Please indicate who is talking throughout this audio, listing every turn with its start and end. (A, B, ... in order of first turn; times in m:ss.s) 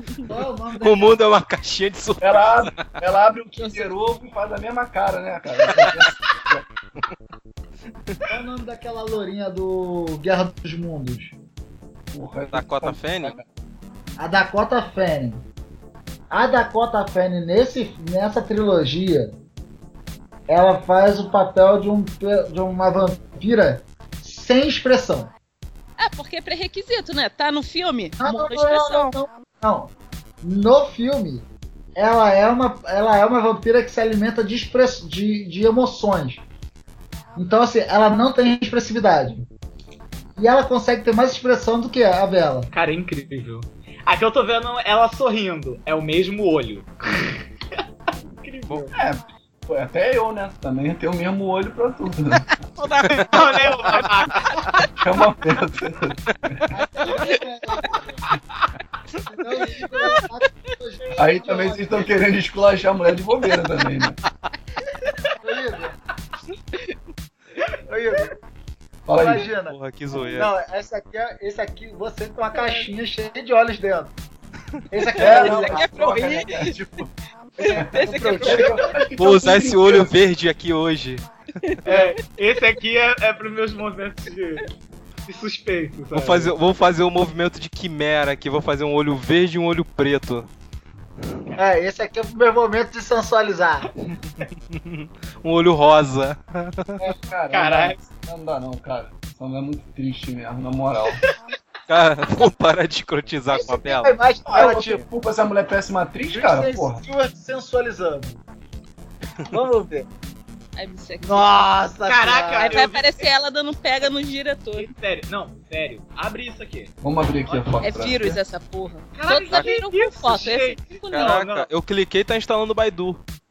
0:00.2-0:01.3 A
0:00.8-0:02.9 B
0:02.2-0:06.6 C
0:08.3-0:11.3 A
0:12.1-0:13.4 C
0:12.5-0:13.4 B
0:14.2-0:15.4 A
0:16.3-0:19.4 A
0:20.5-0:25.3 A
0:26.0-0:29.1 D
0:28.2-0:36.4 A
0:37.4-0:39.5 A
0:40.4-0:42.7 A
0:42.7-0:47.4 E
0:48.4-0:48.9 E
0:48.9-0:52.5 C
0:52.8-0:54.9 D
0:53.2-0:54.6 E
0:55.0-0:56.7 C
0:56.7-0:58.2 A
0:57.1-0:57.4 D
0:59.3-1:02.0 A
0:59.6-1:00.2 D
1:01.2-1:04.2 C
1:05.4-1:06.0 A
1:07.9-1:08.3 A
1:09.0-1:09.5 C
1:09.1-1:14.1 A
1:09.6-1:10.5 B
1:12.5-1:12.9 D
1:14.9-1:15.9 A
1:15.0-1:16.7 D
1:15.2-1:17.1 C
1:17.6-1:18.9 D
1:17.6-1:18.8 A
1:17.7-1:20.1 C
1:19.2-1:21.2 B
1:21.6-1:22.1 D
1:21.8-1:24.7 E
1:25.3-1:26.5 E
1:26.1-1:30.5 B
1:31.6-1:33.9 A
1:34.4-1:37.0 B
1:37.1-1:41.2 C
1:37.5-1:38.0 E
1:41.9-1:44.2 B
1:43.5-1:45.0 A
1:44.4-1:47.0 C
1:46.3-1:48.4 A
1:49.5-1:50.1 A
1:50.8-1:51.5 D
1:51.2-1:52.8 A
1:52.1-1:53.3 E
1:52.6-1:54.9 D
1:54.8-1:56.9 E
1:57.0-1:58.4 C
1:57.5-1:57.8 E
1:57.8-2:01.4 D
1:59.1-2:01.7 E
2:01.1-2:03.2 B